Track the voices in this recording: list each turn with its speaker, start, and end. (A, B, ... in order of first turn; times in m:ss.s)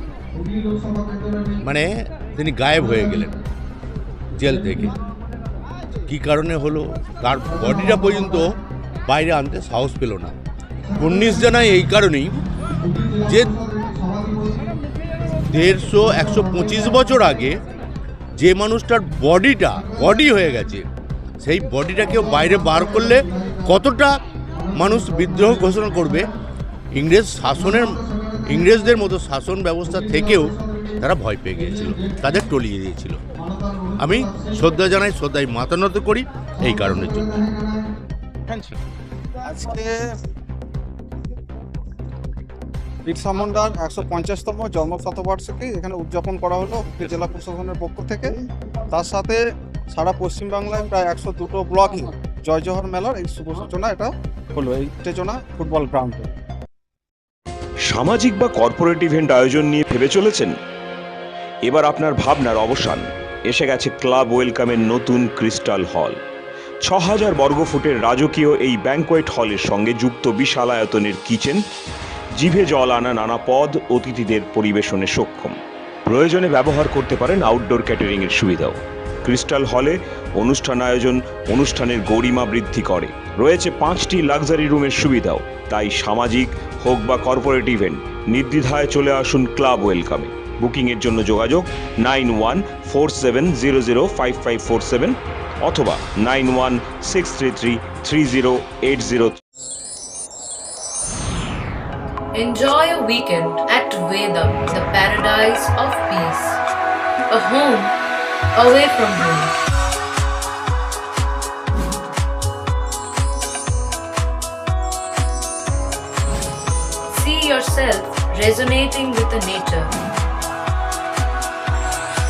0:00.3-0:01.6 A
0:01.6-0:03.4 B
0:02.8-0:03.2 A
0:04.3-0:04.9 B
0:04.6-0:04.9 A
0:06.1-0:08.4 B
0:07.6-0:08.4 A
0:09.1-0:10.4 B
0:10.9-0:12.4 B
0:10.9-0:11.4 A
0:12.8-0:14.8 A
0:13.2-0:13.6 B
0:15.5-0:17.6 B
0:16.1-0:17.1 A
0:18.4-0:20.8 B
0:19.8-0:20.1 A
0:21.4-0:24.1 B
0:22.2-0:23.6 A
0:24.6-0:26.2 A
0:24.7-0:26.3 B
0:26.9-0:33.3 B
0:27.6-0:29.0 A
0:29.9-0:30.9 A
0:31.6-0:32.2 A
0:33.4-0:34.5 A
0:34.0-0:37.5 B
0:36.6-0:37.9 A
0:39.5-0:40.0 A
0:43.0-0:48.3 A
0:48.9-0:49.4 A
0:49.9-0:56.3 A
0:57.8-1:00.5 C
1:01.6-1:06.2 C
1:06.8-1:11.6 C
1:12.4-1:39.4 C
1:42.3-1:46.6 D
1:47.3-1:47.9 D
1:48.5-1:49.5 D
1:57.1-1:59.9 D